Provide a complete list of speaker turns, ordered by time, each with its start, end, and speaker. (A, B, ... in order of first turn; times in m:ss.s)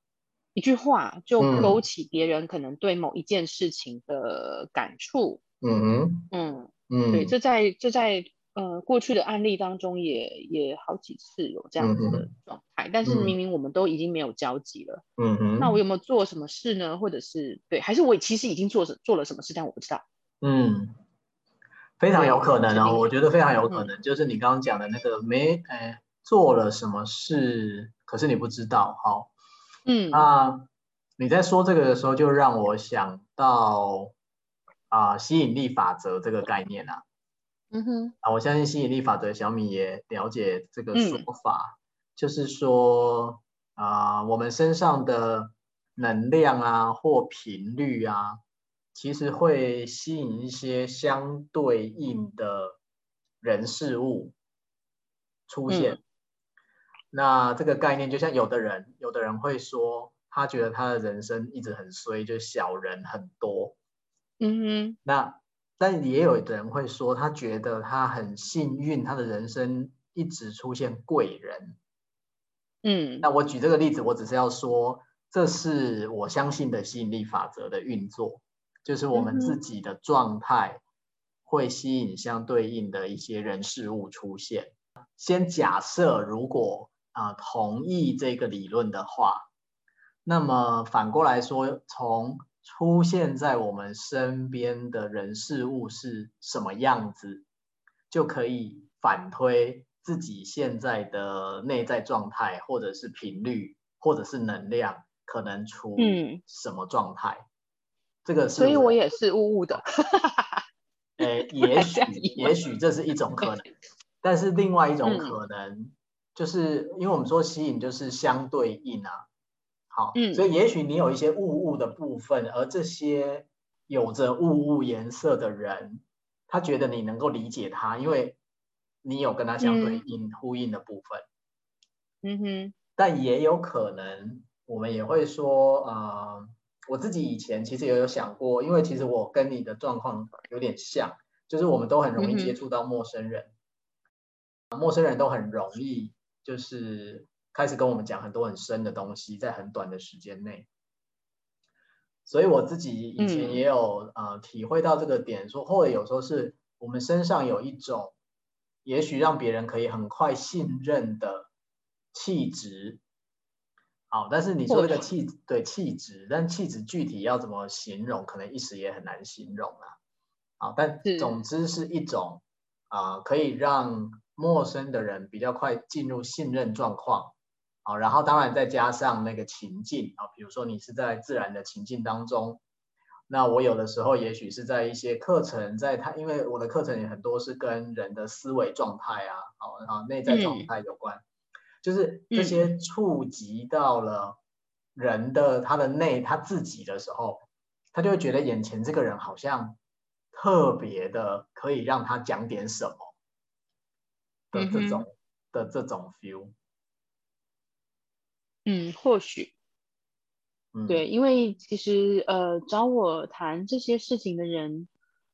0:00.5-0:05.4 A
0:01.4-0:01.8 B
0:05.6-0:06.3 B
0:06.3-0:15.0 A
0:06.9-0:07.3 B
0:11.8-0:12.2 B
0:13.0-0:13.3 B
0:15.2-0:15.8 B
0:15.6-0:20.0 A
0:20.4-0:21.0 B
0:22.0-0:29.3 B
0:22.1-0:23.1 A
0:29.8-0:30.3 A
0:30.1-0:34.1 B
0:34.9-0:37.0 B
0:37.7-0:38.1 A
0:38.2-0:48.4 B
0:40.9-0:41.2 A
0:48.9-0:52.8 B
0:53.4-0:54.3 B
0:55.5-0:56.0 B
0:55.7-0:56.0 A
0:57.1-1:03.8 B
1:04.4-1:05.0 A
1:05.0-1:11.8 B
1:12.8-1:13.3 A
1:13.2-1:20.8 B
1:19.1-1:19.6 A
1:21.4-1:29.5 B
1:30.2-1:37.4 B
1:38.1-1:47.4 B
1:46.0-1:46.4 A
1:48.2-1:49.0 B
1:48.5-1:50.6 A
1:51.2-1:53.6 B
1:51.2-1:52.6 A
1:54.2-1:59.2 B
1:55.0-1:55.4 A
1:59.9-2:08.4 B
2:00.1-2:00.5 A
2:09.0-2:11.2 B
2:09.6-2:10.0 A
2:12.2-2:12.7 A
2:13.0-2:23.5 B
2:22.2-2:22.6 A
2:24.7-2:30.7 B
2:32.2-2:38.2 B
2:33.2-2:33.6 A
2:38.8-2:41.5 B
2:42.1-2:43.0 B
2:44.1-2:49.9 B
2:44.7-2:45.1 A
2:50.6-3:02.6 B
2:51.0-2:51.4 A
3:03.3-3:11.2 B
3:10.3-3:10.7 A
3:11.8-3:14.4 B
3:12.3-3:12.7 A
3:15.0-3:19.8 B
3:20.3-3:23.1 B
3:24.5-3:26.5 B
3:24.5-3:25.0 A
3:28.6-3:29.5 A
3:30.7-3:31.0 B
3:30.9-3:34.9 A